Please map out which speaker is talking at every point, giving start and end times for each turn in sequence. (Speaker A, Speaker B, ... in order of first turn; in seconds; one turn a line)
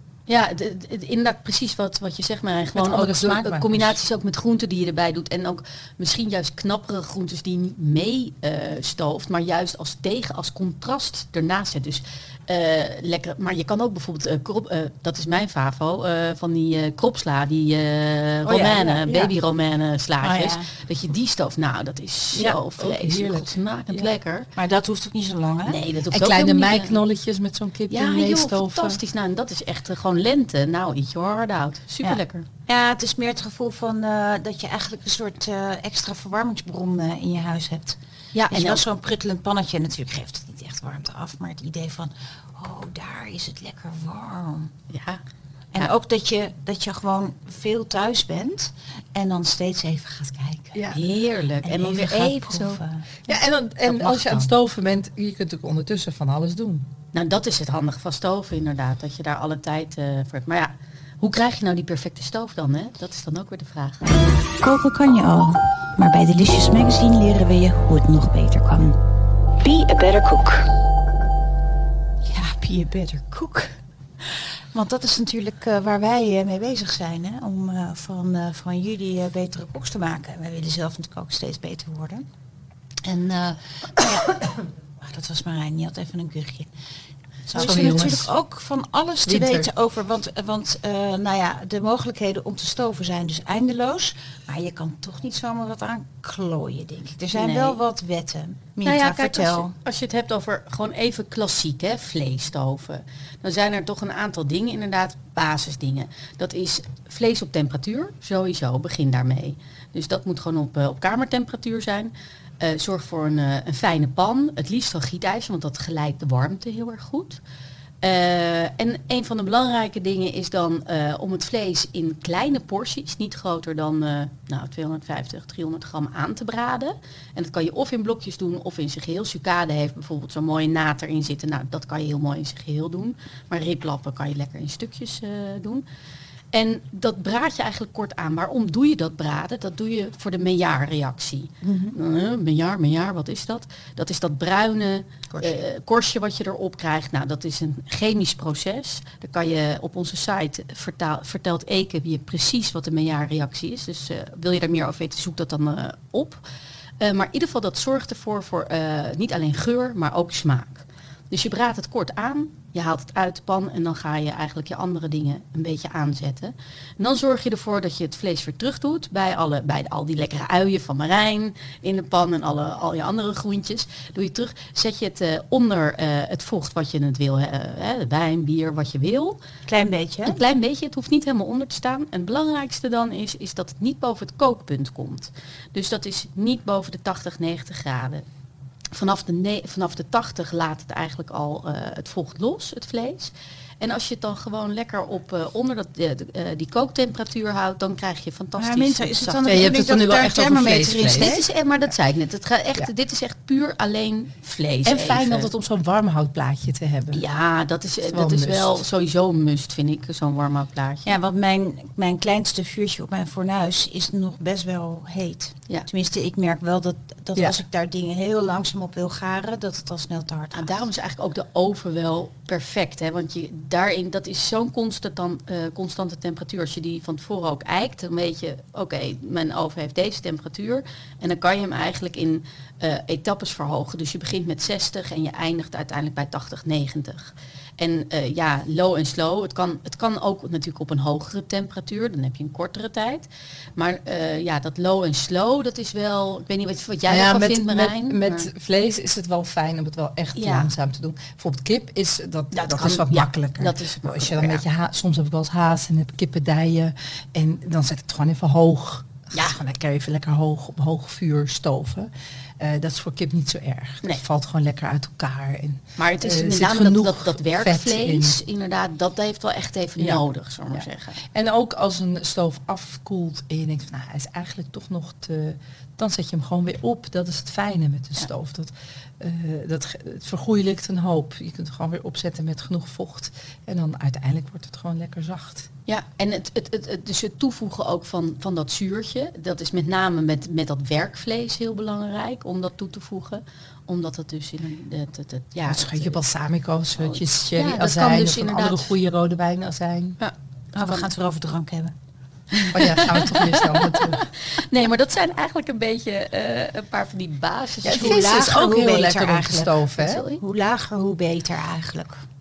Speaker A: 0.3-24.5
Speaker B: 2.8-4.0
Speaker B: 18.4-19.4
Speaker C: 20.2-20.7
Speaker B: 22.3-24.1
Speaker C: 24.6-25.8
Speaker A: 25.7-27.0
Speaker B: 26.1-29.0
Speaker A: 27.9-32.5
Speaker C: 32.0-38.0
Speaker A: 38.3-38.8
Speaker C: 38.5-44.7
Speaker A: 44.9-45.2
Speaker C: 45.7-51.0
Speaker A: 50.8-52.8
Speaker C: 51.6-53.1
Speaker B: 53.3-56.9
Speaker A: 53.9-54.5
Speaker A: 57.1-64.1
Speaker C: 64.6-69.0
Speaker C: 69.6-70.7
Speaker C: 72.2-82.3
Speaker C: 84.0-84.3
Speaker C: 85.0-86.7
Speaker C: 87.5-99.7
Speaker B: 87.5-88.3
Speaker B: 89.3-89.7
Speaker A: 97.3-97.8
Speaker A: 98.8-117.4
Speaker A: 118.0-135.8
Speaker A: 136.5-156.4
Speaker C: 141.6-142.0
Speaker A: 157.0-179.4
Speaker C: 179.7-180.4
Speaker A: 180.3-188.2
Speaker A: 188.9-199.6
Speaker C: 198.6-201.4
Speaker B: 199.5-201.4
Speaker A: 201.0-205.5
Speaker B: 204.8-207.2
Speaker A: 207.1-211.1
Speaker B: 208.1-208.8
Speaker C: 211.1-220.8
Speaker A: 220.5-248.5
Speaker B: 247.1-268.4
Speaker A: 250.4-250.7
Speaker A: 252.5-254.6
Speaker A: 259.3-259.6
Speaker A: 266.0-271.2
Speaker B: 270.0-285.7
Speaker A: 285.9-296.2
Speaker B: 295.7-300.2
Speaker A: 297.1-298.9
Speaker A: 300.2-301.1
Speaker C: 300.8-301.9
Speaker A: 302.5-308.5
Speaker B: 302.7-304.3
Speaker B: 307.9-310.2
Speaker C: 307.9-309.8
Speaker A: 310.0-310.4
Speaker C: 310.4-312.2